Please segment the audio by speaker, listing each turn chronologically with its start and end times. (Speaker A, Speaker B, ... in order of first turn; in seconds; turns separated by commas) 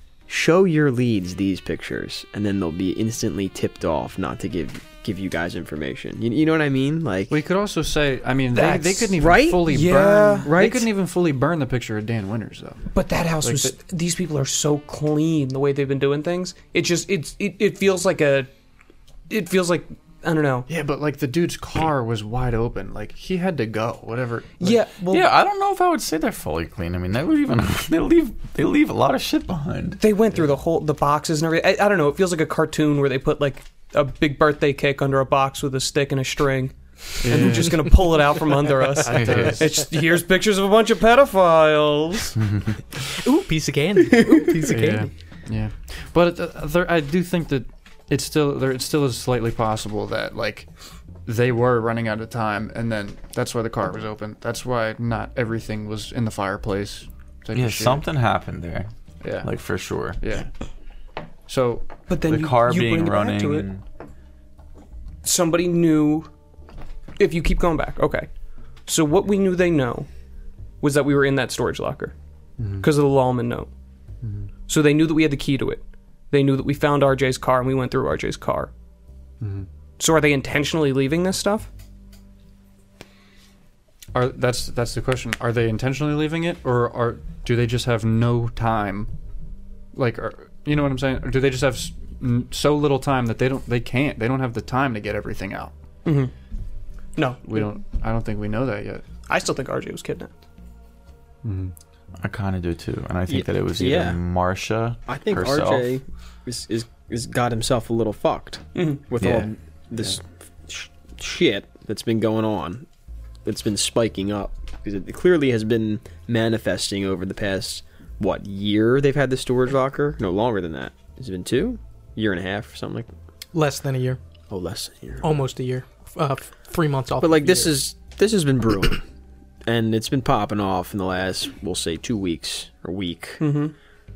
Speaker A: 0.3-7.4, Speaker B: 7.3-12.8, Speaker C: 8.5-9.2, Speaker A: 9.2-10.9, Speaker C: 9.7-10.5, Speaker C: 12.9-18.5, Speaker B: 13.4-13.8, Speaker C: 19.3-20.7, Speaker B: 20.7-24.8, Speaker C: 24.6-25.3, Speaker D: 25.1-30.0, Speaker C: 30.0-42.4, Speaker B: 37.2-38.1, Speaker B: 39.0-39.7, Speaker D: 39.1-39.6, Speaker E: 43.2-45.1, Speaker B: 44.7-50.7, Speaker B: 51.2-58.0, Speaker D: 57.5-60.2, Speaker B: 59.2-59.5, Speaker B: 60.2-60.5, Speaker B: 61.5-61.9, Speaker C: 62.1-63.7, Speaker D: 62.3-63.8, Speaker C: 65.2-66.3, Speaker C: 67.2-68.3, Speaker C: 68.8-70.1, Speaker C: 70.8-72.2, Speaker B: 72.6-72.9, Speaker C: 72.8-73.7, Speaker B: 74.2-74.5, Speaker C: 74.7-78.7, Speaker B: 79.4-79.7, Speaker C: 80.0-81.7, Speaker B: 84.1-89.1, Speaker B: 89.9-95.7, Speaker C: 96.0-96.3, Speaker C: 97.2-97.7, Speaker B: 97.5-99.0, Speaker C: 99.3-100.4, Speaker B: 101.4-101.8, Speaker D: 102.2-105.9, Speaker A: 103.3-104.2, Speaker A: 105.1-112.9, Speaker C: 108.8-109.0, Speaker D: 109.2-109.5, Speaker A: 113.5-123.1, Speaker E: 123.5-124.2, Speaker A: 124.5-125.3, Speaker E: 125.2-127.8, Speaker A: 127.2-129.1, Speaker A: 129.7-133.6, Speaker C: 133.4-133.7